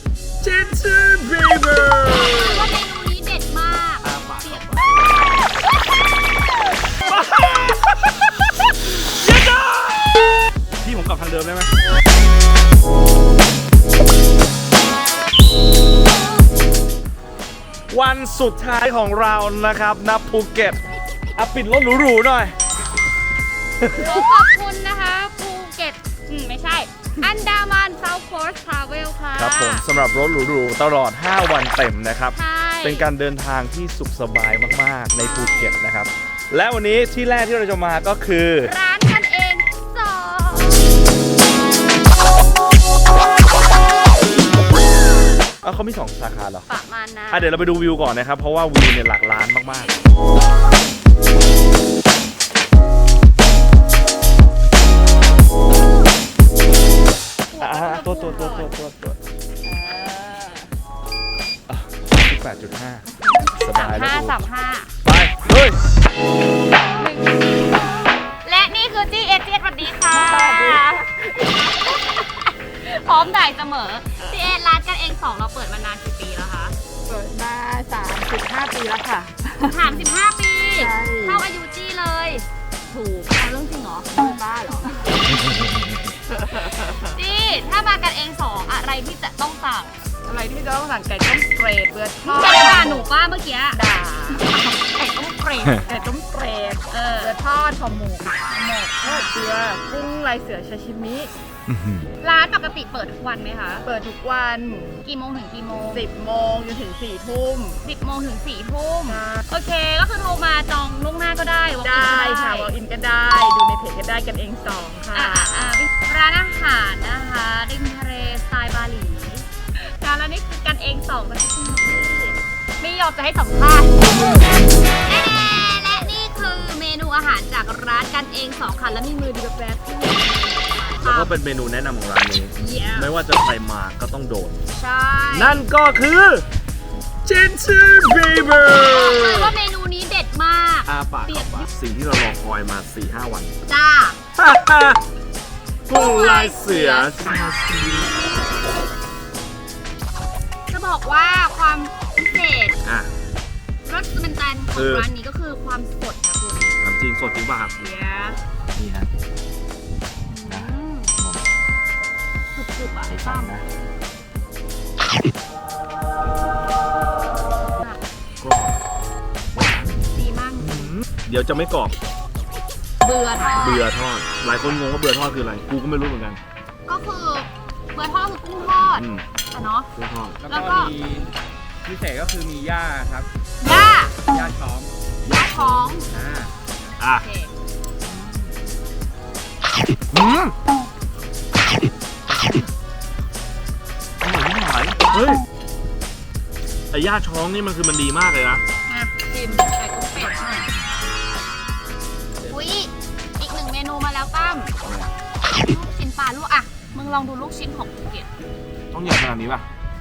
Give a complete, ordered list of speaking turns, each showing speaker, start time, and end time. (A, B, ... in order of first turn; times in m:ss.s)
0:00.4-0:02.7 A
0:02.1-0:05.6 B
0:04.0-0:04.9 A
0:07.0-0:10.2 A
0:10.8-0:11.7 A
0:17.9-0:20.8 A
0:21.0-0:21.4 B
0:21.3-0:22.6 A
0:23.8-0:24.3 A
0:23.9-0:29.8 B
0:29.4-0:38.7 A
0:32.3-0:33.1 B
0:35.2-0:35.8 B
0:38.6-0:40.8 B
0:45.6-0:46.7 A
0:46.7-0:47.6 B
0:47.3-0:49.9 A
0:57.5-0:58.7 B
0:57.6-0:59.2 A
0:59.6-1:00.7 B
1:01.7-1:03.0 A
1:03.6-1:04.4 A
1:03.7-1:04.9 B
1:05.0-1:05.8 A
1:07.0-1:07.7 B
1:08.4-1:10.9 B
1:10.0-1:11.6 C
1:11.4-1:16.8 B
1:17.0-1:19.9 C
1:19.7-1:24.1 B
1:20.8-1:21.4 C
1:24.1-1:25.1 C
1:26.6-1:30.0 B
1:30.2-1:33.0 C
1:32.2-1:33.8 B
1:33.7-1:34.7 C
1:34.4-1:35.9 B
1:35.8-1:41.3 C
1:36.9-1:37.4 B
1:38.5-1:39.3 B
1:41.7-1:42.1 A
1:42.2-1:43.8 B
1:43.8-1:44.9 C
1:45.0-1:46.0 B
1:45.9-1:47.8 C
1:47.8-1:52.7 B
1:49.1-1:49.4 C
1:51.8-1:55.6 C
1:55.1-2:04.0 B
2:05.0-2:11.3 B
2:11.0-2:14.6 A
2:12.6-2:13.1 B
2:14.7-2:15.6 B
2:15.3-2:16.4 A
2:17.2-2:19.5 A
2:18.8-2:21.7 B
2:20.8-2:23.5 A
2:23.7-2:24.2 B
2:24.4-2:25.0 A
2:25.9-2:28.2 A
2:25.9-2:27.3 B
2:30.7-2:32.8 B
2:32.8-2:33.1 A
2:33.8-2:36.8 B
2:34.7-2:35.1 A
2:36.8-2:37.7 A
2:37.8-2:38.4 B
2:38.8-2:39.1 A
2:40.3-2:41.2 B
2:40.5-2:41.4 A
2:42.5-2:43.6 B
2:43.1-2:43.6 A
2:48.4-2:48.8 A
2:49.5-2:50.0 A
2:50.1-2:51.0 B
2:50.6-2:52.0 A
2:53.0-2:53.8 B
2:53.5-2:56.4 A
2:56.8-2:59.9 B
2:58.8-2:59.2 A
2:59.9-3:00.4 A
3:00.4-3:01.3 D
3:00.4-3:00.9 B
3:01.8-3:03.3 D
3:03.6-3:04.2 B
3:04.3-3:04.9 D
3:05.2-3:05.9 A
3:05.3-3:06.1 B
3:06.1-3:06.5 D
3:07.0-3:07.2 A
3:07.1-3:07.5 B
3:10.1-3:10.5 A
3:12.3-3:12.7 A
3:14.2-3:15.4 A
3:16.9-3:18.6 A
3:18.9-3:20.7 B
3:22.5-3:24.7 B
3:24.8-3:25.1 A
3:25.6-3:28.3 B
3:28.9-3:29.7 A